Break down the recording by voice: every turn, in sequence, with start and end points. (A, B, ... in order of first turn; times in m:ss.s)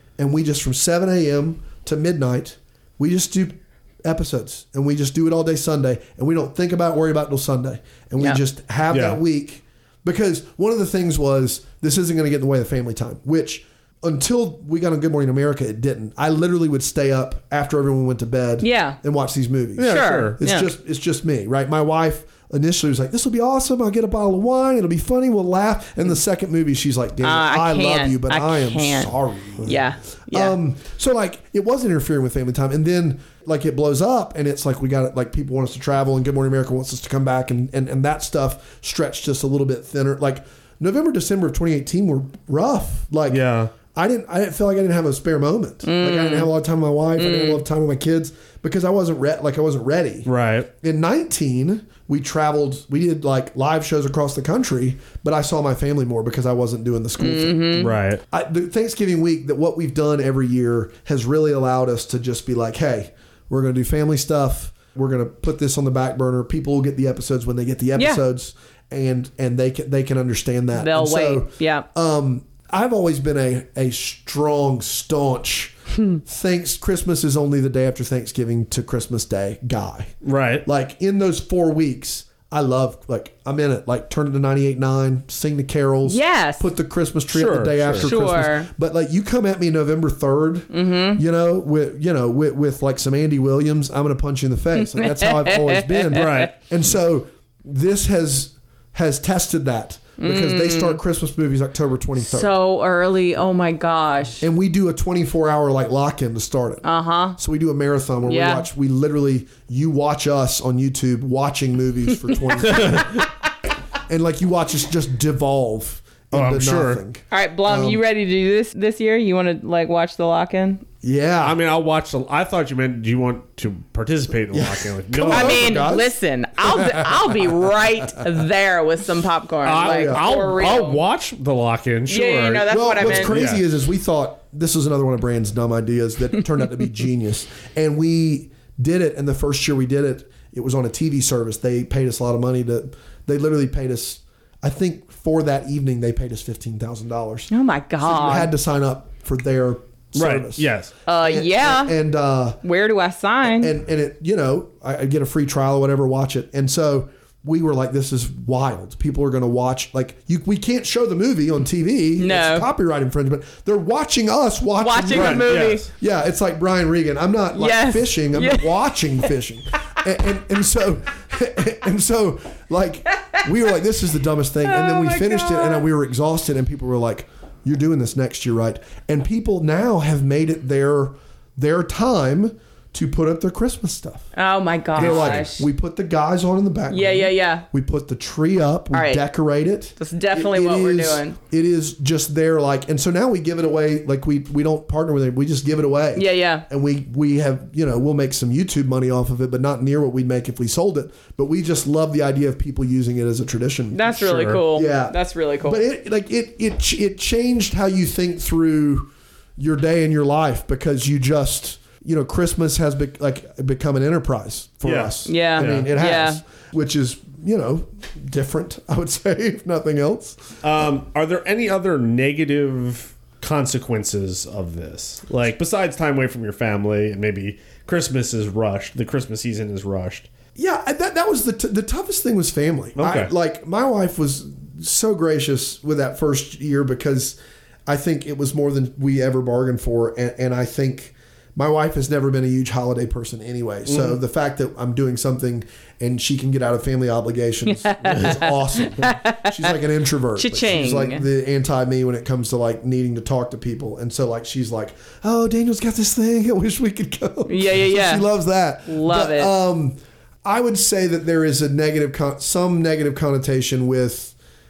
0:00.2-1:15.7 A
0:08.9-0:09.2 B
0:18.6-0:19.0 C
0:19.8-0:20.4 B
0:19.8-0:20.7 C
0:27.2-0:30.6 C
0:43.3-0:43.7 B
0:45.8-0:46.5 C
0:47.2-0:47.6 C
0:50.2-0:50.7 B
0:57.2-0:57.9 C
0:57.8-0:58.2 B
1:10.7-1:11.8 C
1:16.2-1:20.1 A
1:20.2-1:20.6 B
1:20.6-1:42.5 A
1:26.0-1:26.6 C
1:27.3-1:28.1 B
1:28.0-1:28.7 C
1:30.7-1:31.2 C
1:34.8-1:36.5 C
1:36.1-1:36.5 B
1:40.2-1:41.0 C
1:42.2-1:44.4 C
1:44.4-1:46.8 A
1:46.8-1:47.4 C
1:47.4-1:53.2 A
1:48.2-1:48.6 C
1:52.6-1:53.3 B
1:54.1-1:58.0 A
1:56.3-1:57.0 B
1:57.3-2:00.8 C
2:01.0-2:01.6 A
2:01.4-2:05.7 B
2:04.5-2:07.5 A
2:05.2-2:11.0 C
2:09.6-2:13.6 B
2:09.8-2:10.3 A
2:12.1-2:13.4 C
2:12.7-2:27.5 A
2:27.5-2:28.5 C
2:28.0-2:32.6 A
2:30.1-2:30.9 B
2:31.0-2:31.9 C
2:32.6-2:33.7 C
2:33.4-3:04.3 A
2:42.2-2:42.7 C
2:44.8-2:45.8 C
2:45.1-2:45.9 B
2:47.6-2:48.8 C
2:54.6-2:55.8 C
3:04.3-3:05.7 C
3:04.9-3:40.6 A
3:05.0-3:05.5 B
3:06.9-3:07.6 C
3:08.9-3:09.2 C
3:10.0-3:11.4 C
3:16.1-3:16.6 C
3:23.9-3:25.8 C
3:24.2-3:24.6 B
3:34.8-3:35.9 B
3:35.2-3:36.4 C
3:40.6-3:50.3 B
3:50.6-4:24.3 A
3:53.0-3:53.3 B
4:03.9-4:04.2 B
4:07.6-4:09.7 C
4:10.4-4:11.2 C
4:17.5-4:18.2 C
4:18.9-4:19.5 C